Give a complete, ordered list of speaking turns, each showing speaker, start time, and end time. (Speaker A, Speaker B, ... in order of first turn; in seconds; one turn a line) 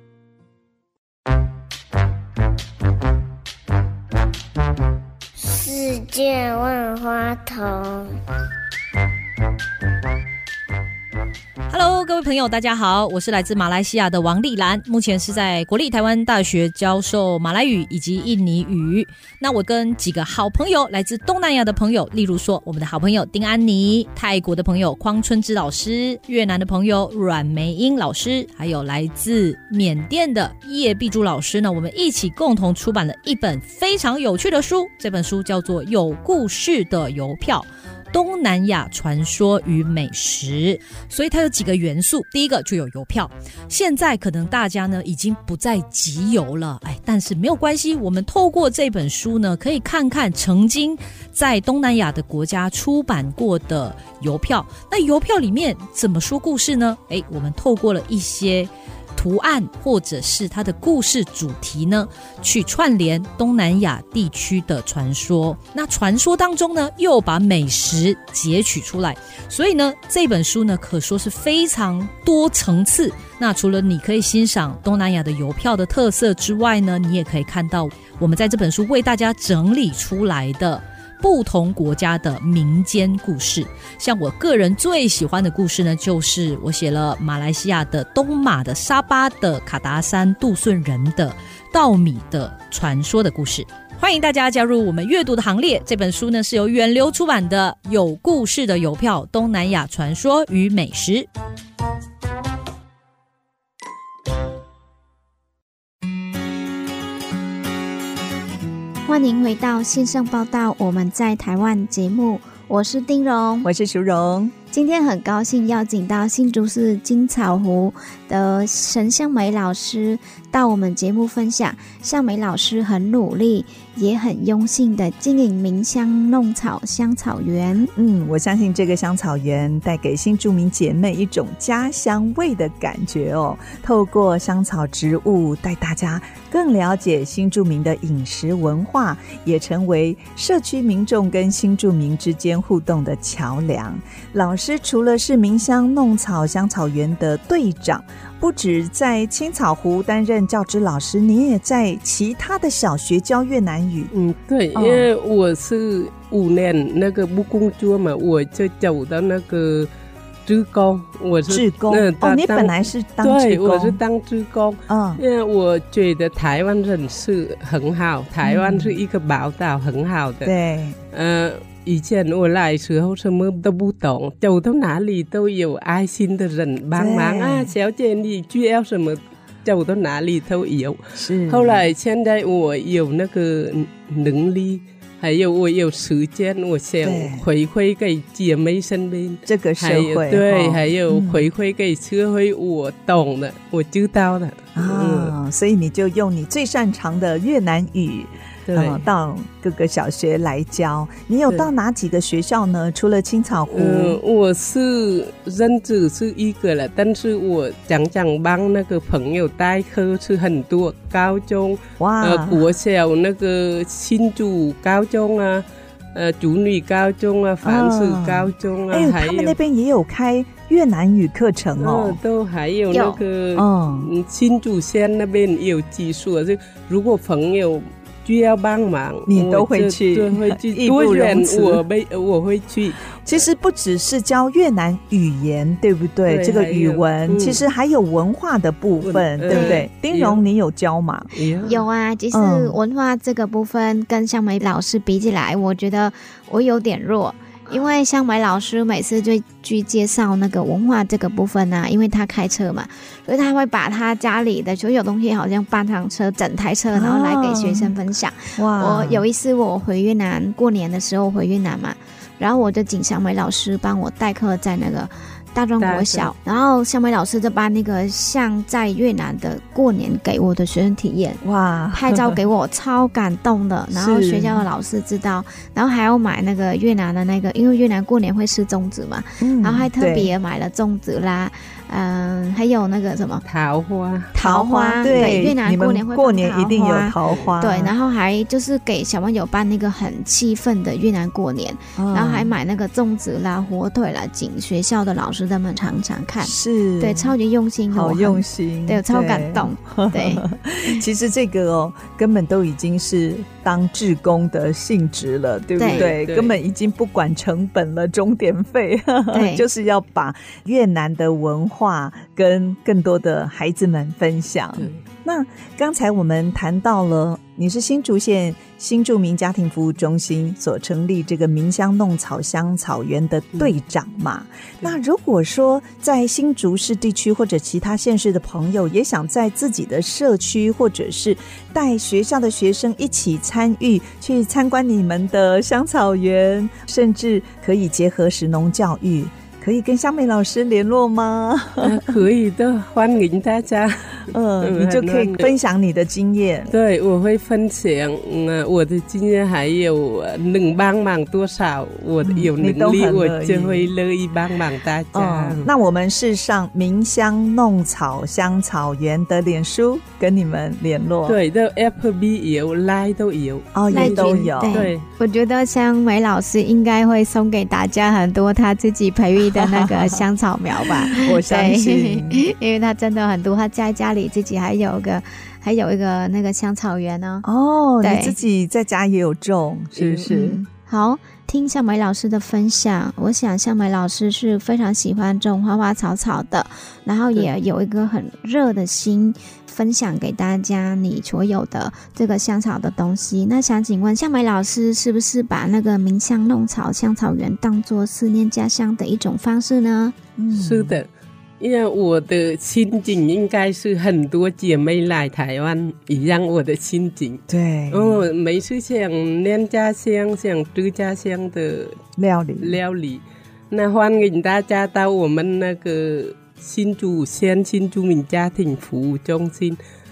Speaker A: 5.4-8.2
Speaker B: 11.7-101.3
Speaker C: 109.0-113.7
Speaker D: 113.6-114.5
Speaker C: 114.7-127.9
Speaker D: 127.9-154.1
Speaker E: 154.1-159.9
Speaker D: 154.7-155.1
Speaker E: 160.4-170.5
Speaker D: 161.5-164.0
Speaker D: 164.9-165.2
Speaker D: 168.4-168.9
Speaker D: 170.4-171.0
Speaker E: 171.1-195.3
Speaker D: 176.9-177.7
Speaker D: 181.2-181.8
Speaker D: 187.0-187.4
Speaker D: 189.4-191.5
Speaker D: 194.8-204.2
Speaker E: 198.7-199.1
Speaker E: 203.7-219.6
Speaker D: 212.0-212.6
Speaker D: 217.6-222.2
Speaker E: 221.8-233.1
Speaker C: 222.9-223.2
Speaker D: 223.5-224.1
Speaker D: 229.2-231.8
Speaker D: 233.2-241.3
Speaker E: 236.3-237.6
Speaker E: 239.0-240.4
Speaker C: 239.5-239.8
Speaker E: 241.3-241.8
Speaker C: 241.6-271.4
Speaker D: 242.3-242.8
Speaker D: 256.9-257.9
Speaker D: 258.6-259.2
Speaker E: 265.8-266.3
Speaker D: 271.4-272.4
Speaker C: 271.9-283.4
Speaker D: 273.9-274.6
Speaker D: 279.4-280.3
Speaker E: 283.4-284.3
Speaker D: 284.3-287.9
Speaker C: 284.3-301.0
Speaker E: 285.0-285.5
Speaker E: 287.2-287.5
Speaker D: 291.9-292.5
Speaker D: 296.4-297.3
Speaker D: 297.9-342.2
Speaker C: 305.8-306.1
Speaker E: 305.9-306.5
Speaker C: 309.3-309.6
Speaker E: 341.8-345.5
Speaker D: 344.3-346.7
Speaker E: 346.7-355.7
Speaker D: 352.2-353.9
Speaker D: 355.1-361.4
Speaker E: 361.2-365.0
Speaker D: 363.7-364.9
Speaker C: 363.9-377.4
Speaker D: 369.4-370.1
Speaker D: 371.2-372.4
Speaker D: 377.4-380.6
Speaker C: 378.0-378.3
Speaker E: 379.9-380.3
Speaker C: 380.3-400.1
Speaker D: 400.4-401.0
Speaker E: 400.5-401.1
Speaker E: 401.6-412.0
Speaker D: 407.5-408.2
Speaker D: 412.2-412.8
Speaker E: 412.6-419.8